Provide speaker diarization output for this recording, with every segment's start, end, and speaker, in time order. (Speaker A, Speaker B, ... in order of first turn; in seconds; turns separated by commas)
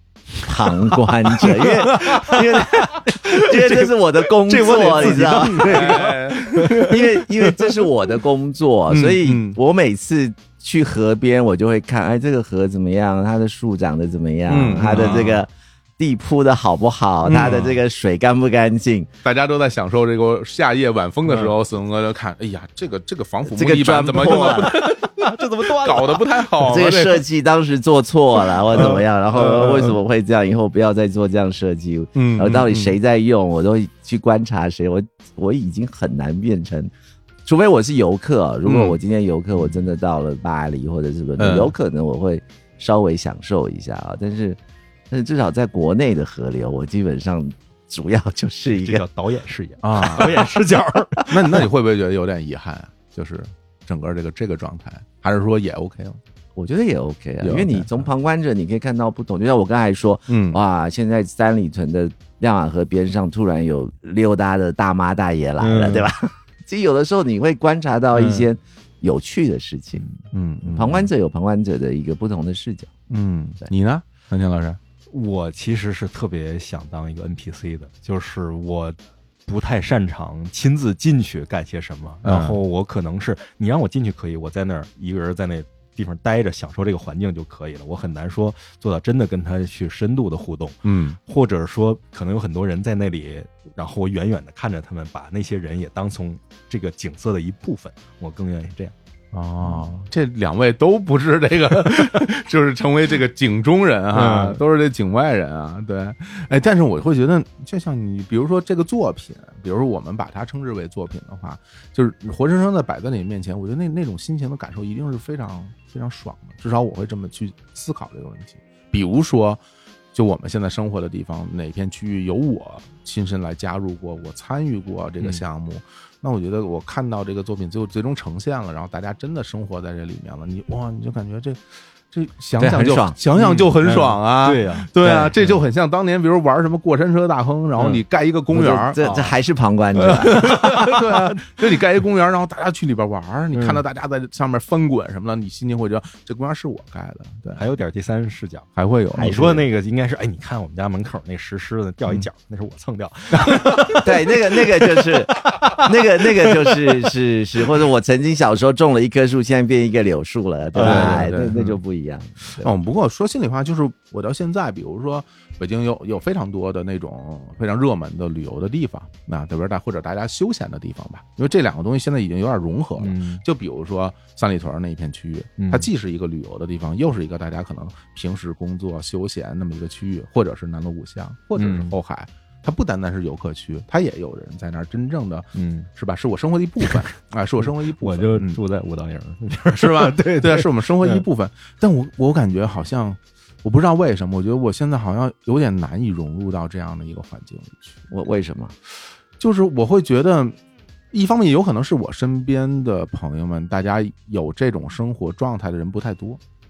Speaker A: 0.4-6.1, Speaker B: 1.5-2.4, Speaker C: 3.1-3.9, Speaker C: 4.5-7.1, Speaker B: 4.6-7.6, Speaker A: 6.7-19.1, Speaker B: 8.9-9.6, Speaker B: 14.5-15.4, Speaker B: 17.2-17.8, Speaker B: 19.2-27.2, Speaker C: 21.3-21.5, Speaker A: 23.5-24.9, Speaker C: 24.2-26.4, Speaker A: 26.6-36.9, Speaker B: 28.7-30.0, Speaker C: 28.8-29.0, Speaker B: 32.1-33.0, Speaker A: 37.5-44.6, Speaker B: 38.6-39.0, Speaker B: 41.4-41.8, Speaker A: 45.1-49.0, Speaker C: 48.8-51.7, Speaker B: 49.8-50.4, Speaker B: 51.3-56.2, Speaker A: 56.6-70.0, Speaker B: 57.4-58.0, Speaker B: 60.3-60.6, Speaker C: 65.6-66.1, Speaker C: 68.1-68.5, Speaker B: 70.3-71.1, Speaker A: 70.7-72.9, Speaker B: 73.1-74.8, Speaker C: 75.1-98.9, Speaker B: 82.2-82.6, Speaker B: 90.8-91.2, Speaker B: 99.3-119.6, Speaker C: 99.6-99.9, Speaker C: 104.1-104.6, Speaker B: 120.1-139.3, Speaker A: 132.6-133.2, Speaker C: 133.4-135.6, Speaker A: 135.0-135.3, Speaker C: 137.8-138.0, Speaker A: 138.5-140.8, Speaker B: 140.0-147.7, Speaker C: 140.5-141.3, Speaker C: 143.5-143.8, Speaker C: 147.6-157.0, Speaker B: 148.8-149.4, Speaker A: 149.2-149.7, Speaker B: 153.3-154.0, Speaker A: 154.0-162.7, Speaker C: 160.7-161.3, Speaker B: 160.8-161.8, Speaker B: 162.6-188.6, Speaker C: 173.0-173.4, Speaker C: 175.6-175.9, Speaker C: 181.6-181.9, Speaker C: 185.6-185.9, Speaker C: 187.6-191.2, Speaker B: 189.7-198.0, Speaker A: 198.1-198.8, Speaker B: 199.4-200.6, Speaker B: 201.1-206.4